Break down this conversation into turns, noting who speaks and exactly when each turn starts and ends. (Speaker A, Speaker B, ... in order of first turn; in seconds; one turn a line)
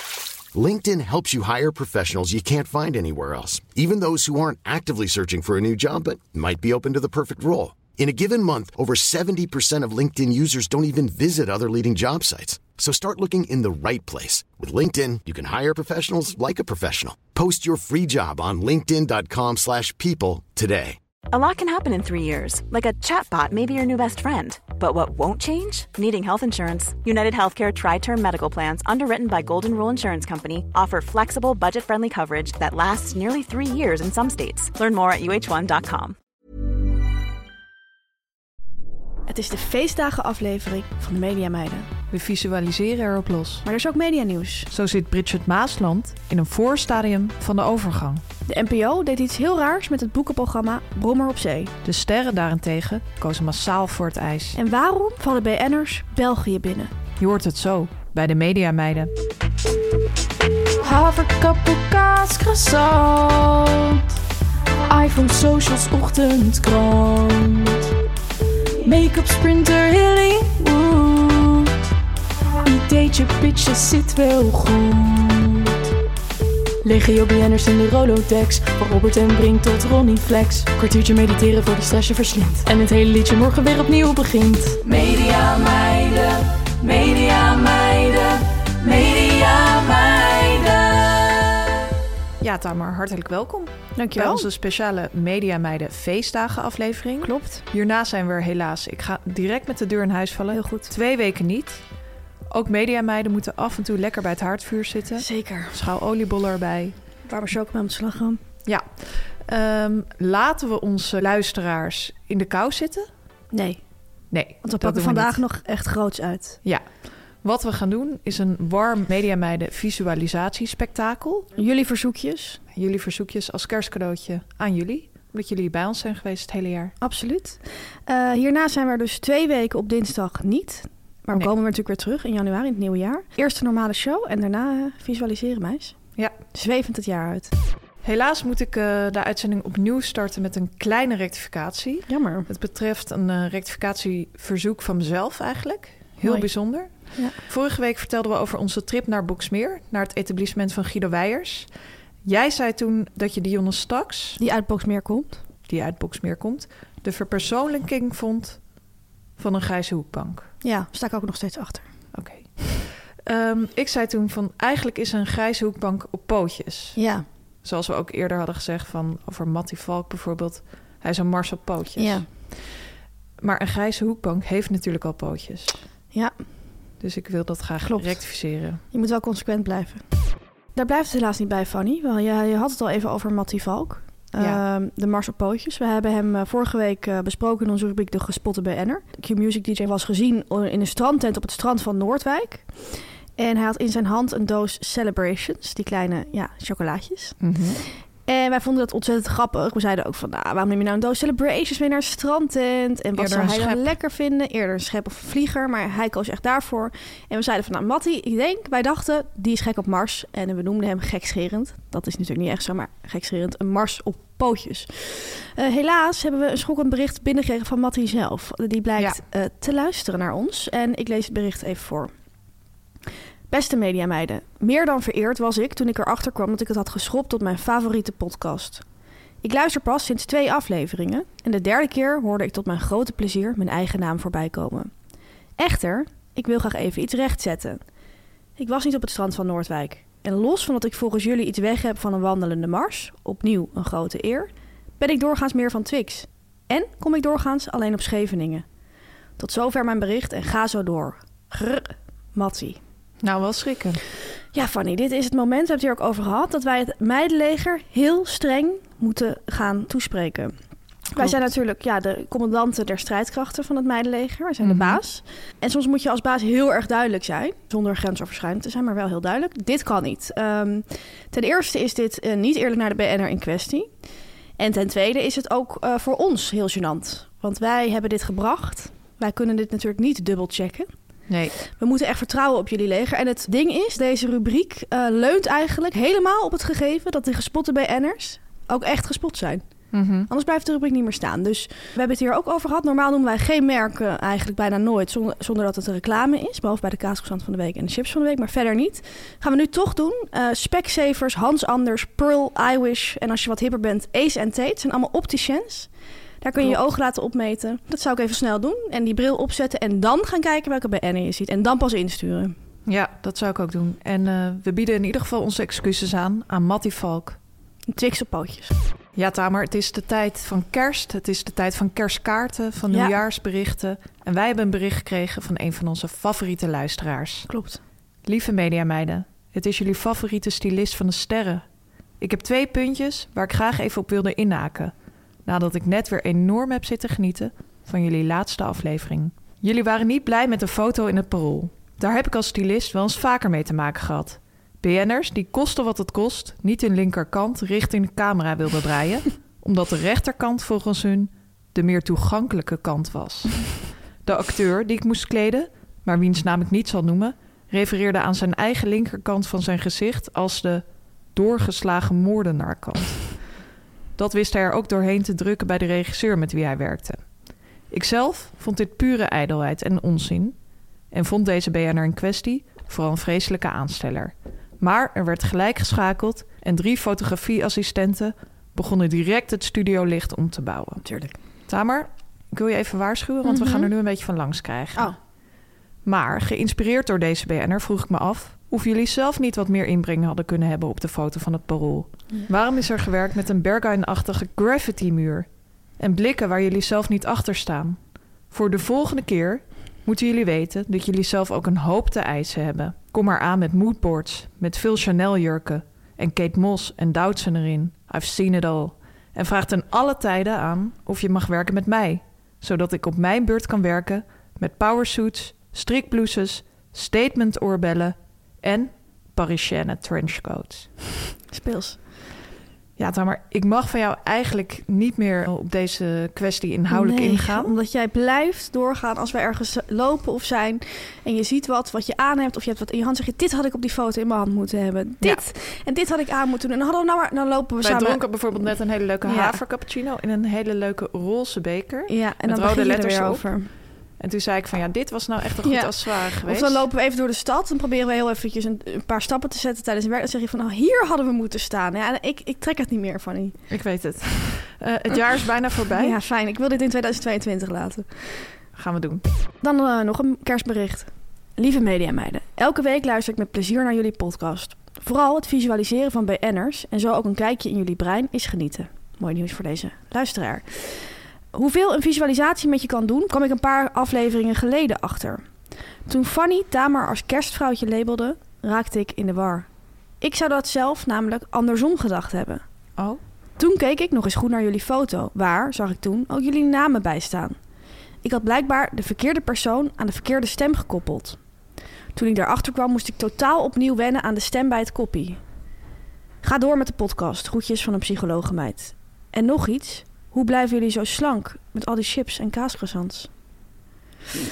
Speaker A: 0.5-21.0
Speaker B: 21.3-36.1
Speaker C: 39.3-41.9
Speaker D: 42.1-43.6
Speaker C: 43.6-44.7
Speaker D: 44.7-48.2
Speaker C: 48.5-51.7
Speaker D: 51.8-54.6
Speaker C: 54.5-56.9
Speaker D: 57.2-59.1
Speaker E: 60.8-64.0
Speaker E: 64.9-67.9
Speaker E: 68.8-71.7
Speaker E: 72.6-75.8
Speaker E: 76.8-91.6
Speaker D: 92.4-101.8
Speaker C: 94.0-94.5
Speaker C: 97.2-97.6
Speaker C: 100.5-100.9
Speaker D: 102.5-106.9
Speaker C: 105.2-105.8
Speaker C: 107.3-108.4
Speaker D: 108.7-113.1
Speaker C: 113.5-113.8
Speaker D: 114.3-115.4
Speaker C: 114.6-116.6
Speaker D: 117.4-121.5
Speaker C: 121.5-122.6
Speaker D: 122.7-126.9
Speaker C: 127.0-135.9
Speaker C: 136.5-137.5
Speaker D: 138.0-151.7
Speaker C: 142.1-142.5
Speaker C: 146.2-146.5
Speaker D: 152.2-154.4
Speaker C: 154.4-155.4
Speaker D: 155.7-158.6
Speaker D: 159.4-160.5
Speaker C: 160.6-161.8
Speaker D: 162.1-167.0
Speaker C: 166.9-167.2
Speaker D: 167.6-172.3
Speaker C: 172.0-172.2
Speaker D: 173.4-175.8
Speaker C: 176.1-176.4
Speaker D: 177.0-178.8
Speaker C: 177.8-180.0
Speaker C: 180.7-197.4
Speaker D: 197.4-197.8
Speaker C: 198.2-222.1
Speaker D: 203.2-203.9
Speaker C: 223.5-228.8
Speaker C: 229.4-234.9
Speaker C: 235.6-237.8
Speaker C: 238.6-248.6
Speaker C: 249.4-252.8
Speaker D: 253.2-254.0
Speaker C: 254.5-260.5
Speaker C: 261.1-273.9
Speaker D: 264.6-265.0
Speaker C: 274.6-280.9
Speaker D: 281.3-281.6
Speaker C: 281.7-289.6
Speaker D: 289.9-290.3
Speaker C: 290.3-305.9
Speaker C: 306.4-312.5
Speaker D: 312.9-317.4
Speaker C: 317.9-318.8
Speaker D: 319.1-327.5
Speaker C: 322.9-323.1
Speaker C: 327.5-327.8
Speaker D: 328.2-331.6
Speaker D: 332.2-334.9
Speaker D: 335.4-360.8
Speaker D: 361.3-363.3
Speaker D: 364.2-367.2
Speaker D: 367.9-370.5
Speaker D: 371.1-381.0
Speaker C: 381.0-381.4
Speaker D: 381.7-385.1
Speaker C: 383.4-383.9
Speaker D: 386.0-395.5
Speaker D: 396.0-398.0
Speaker D: 398.5-420.9
Speaker C: 421.5-422.0
Speaker D: 423.0-427.8
Speaker C: 426.9-438.2
Speaker D: 437.8-443.5
Speaker C: 439.2-439.6
Speaker C: 442.1-443.7
Speaker D: 444.2-446.8
Speaker C: 445.6-453.6
Speaker D: 453.7-456.2
Speaker C: 455.9-458.4
Speaker D: 458.7-459.2
Speaker C: 459.6-475.4
Speaker C: 476.1-479.7
Speaker C: 480.2-482.6
Speaker C: 483.6-487.6
Speaker C: 488.2-491.4
Speaker C: 492.1-495.4
Speaker C: 496.4-503.3